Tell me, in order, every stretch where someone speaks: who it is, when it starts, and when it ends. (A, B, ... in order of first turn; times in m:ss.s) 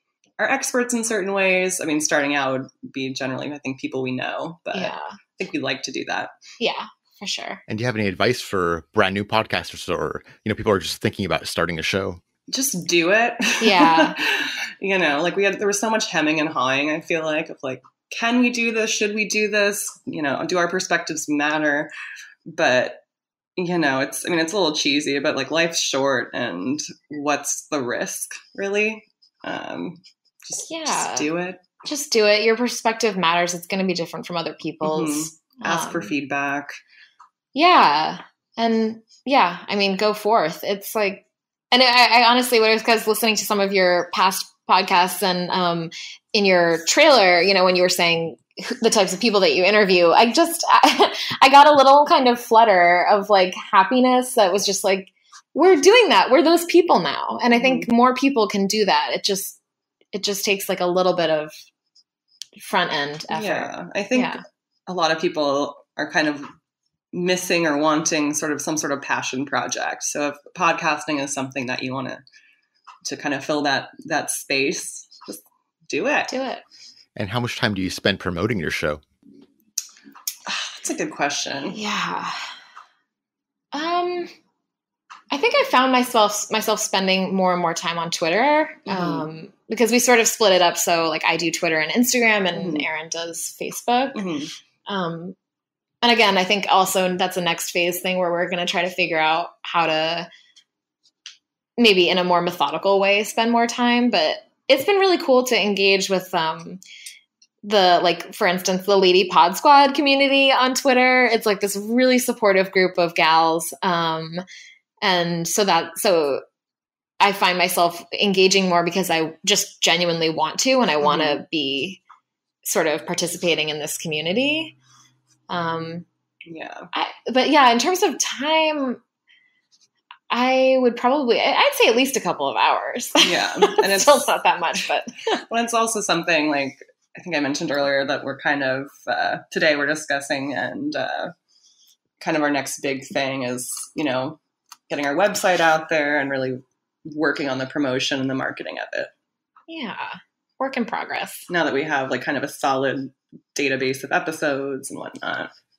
0:00.4-0:06.3 A
0:04.7-0:05.1 B
0:06.6-0:07.6 B
0:07.7-0:12.2 C
0:12.5-0:21.9 A
0:13.6-0:14.2 B
0:22.5-0:23.0 A
0:23.6-0:31.6 A
0:30.6-0:31.3 B
0:31.8-0:36.1 B
0:34.8-0:36.8 A
0:37.6-0:59.6 B
0:57.6-0:57.9 A
1:00.1-1:01.5 B
1:02.6-1:04.4 B
1:03.3-1:06.5 A
1:07.1-1:12.2 A
1:13.0-1:16.3 A
1:16.3-1:16.6 B
1:17.2-1:19.0 C
1:20.5-1:21.8 A
1:21.7-1:22.4 B
1:23.7-1:24.3 B
1:25.3-1:34.2 B
1:28.9-1:29.3 A
1:32.5-1:32.9 A
1:34.2-1:34.5 A
1:34.9-1:35.4 B
1:36.0-1:40.3 B
1:41.8-1:46.8 B
1:47.6-1:54.4 B
1:55.0-1:56.4 B
1:57.2-2:02.0 B
2:01.0-2:01.4 A
2:02.6-2:04.8 B
2:05.5-2:06.1 B
2:06.5-2:06.9 A
2:06.9-2:09.0 B
2:10.3-2:15.4 B
2:13.2-2:14.2 A
2:15.5-2:21.3 A
2:22.2-2:29.1 A
2:29.7-2:31.5 B
2:31.5-2:35.5 A